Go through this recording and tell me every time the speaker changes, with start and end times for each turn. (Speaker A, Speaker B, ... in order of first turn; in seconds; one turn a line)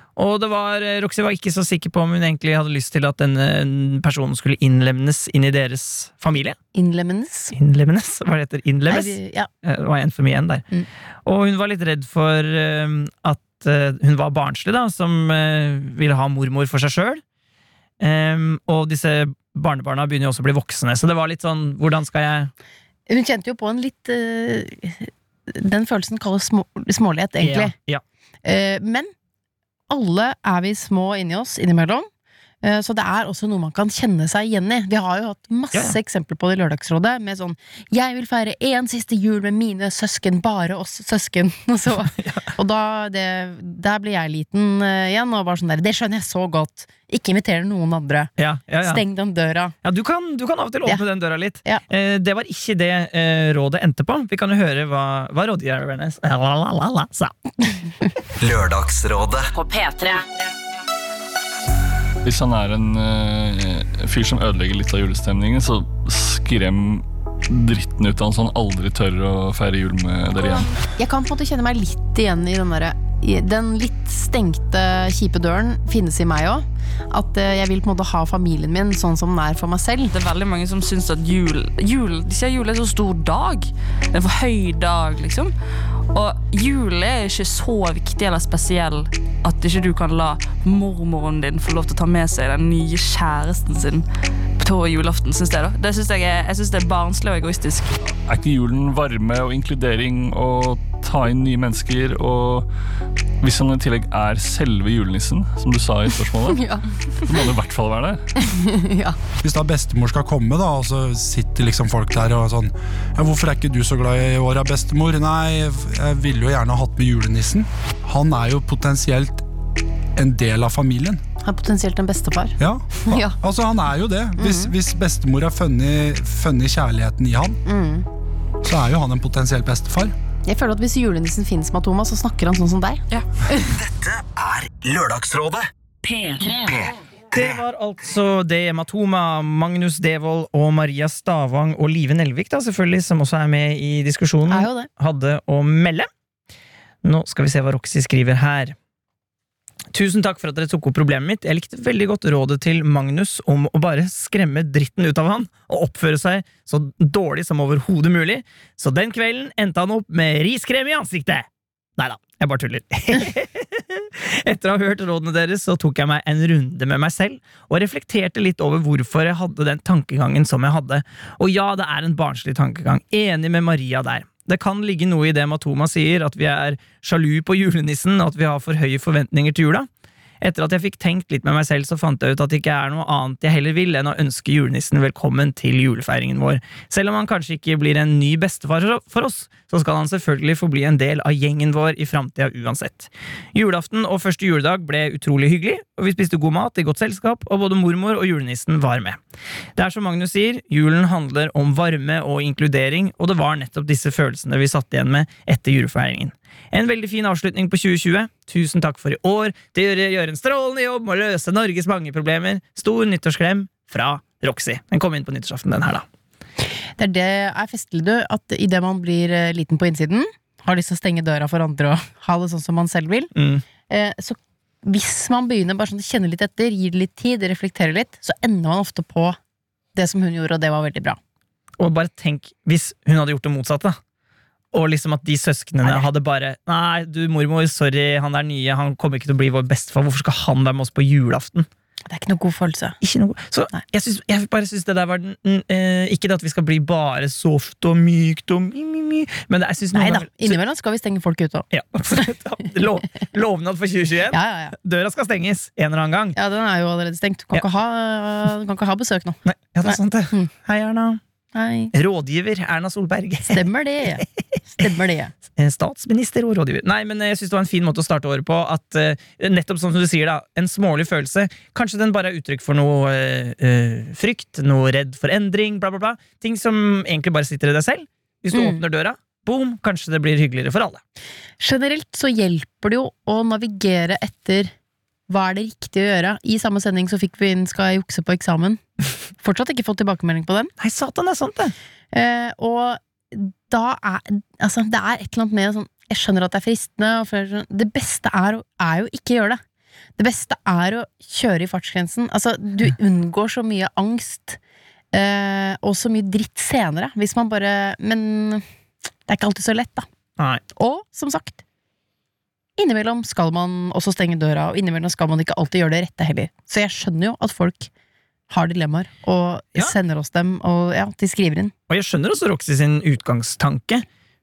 Speaker A: 0.2-6.6
Speaker B: 6.7-7.5
Speaker A: 7.5-10.7
Speaker B: 8.9-9.5
Speaker A: 11.2-17.2
Speaker A: 18.0-22.5
Speaker B: 23.1-27.7
Speaker A: 27.4-28.0
Speaker B: 28.4-29.1
Speaker B: 29.9-32.1
Speaker B: 32.6-48.3
Speaker A: 42.2-42.5
Speaker A: 48.4-49.0
Speaker B: 48.8-49.8
Speaker A: 49.8-57.5
Speaker C: 58.4-59.5
Speaker D: 59.6-60.1
Speaker E: 62.2-70.8
Speaker B: 70.8-80.1
Speaker D: 80.1-85.5
Speaker D: 86.1-94.0
Speaker D: 94.6-97.9
Speaker E: 98.2-102.7
Speaker E: 103.4-108.2
Speaker B: 106.5-106.8
Speaker B: 108.4-109.2
Speaker F: 109.4-119.5
Speaker F: 120.2-121.2
Speaker B: 121.4-123.4
Speaker F: 122.6-127.6
Speaker B: 124.4-124.7
Speaker B: 127.7-128.1
Speaker F: 128.6-130.1
Speaker B: 130.5-133.0
Speaker C: 133.8-137.6
Speaker A: 137.3-146.1
Speaker B: 144.5-144.9
Speaker A: 147.0-148.8
Speaker A: 149.9-161.4
Speaker A: 162.0-179.9
Speaker A: 180.4-199.2
Speaker A: 199.8-216.1
Speaker B: 216.6-223.3
Speaker A: 223.3-223.6
Speaker B: 223.9-229.4
Speaker B: 229.9-231.2
Speaker A: 231.8-234.0
Speaker A: 234.7-241.7
Speaker B: 242.1-243.0
Speaker A: 243.0-250.6
Speaker B: 249.9-252.3
Speaker A: 251.7-256.4
Speaker B: 254.3-254.8
Speaker B: 256.4-260.5
Speaker A: 259.4-261.2
Speaker B: 261.5-261.9
Speaker A: 261.9-263.6
Speaker B: 263.5-265.3
Speaker A: 265.5-281.0
Speaker B: 278.5-278.8
Speaker B: 281.6-284.7
Speaker B: 285.3-288.8
Speaker B: 289.4-290.7
Speaker A: 290.8-291.7
Speaker B: 292.1-299.6
Speaker B: 300.2-304.6
Speaker B: 305.1-308.6
Speaker B: 309.3-310.1
Speaker A: 310.4-310.6
Speaker B: 310.7-311.6
Speaker B: 312.8-317.9
Speaker B: 318.5-321.7
Speaker A: 321.9-324.1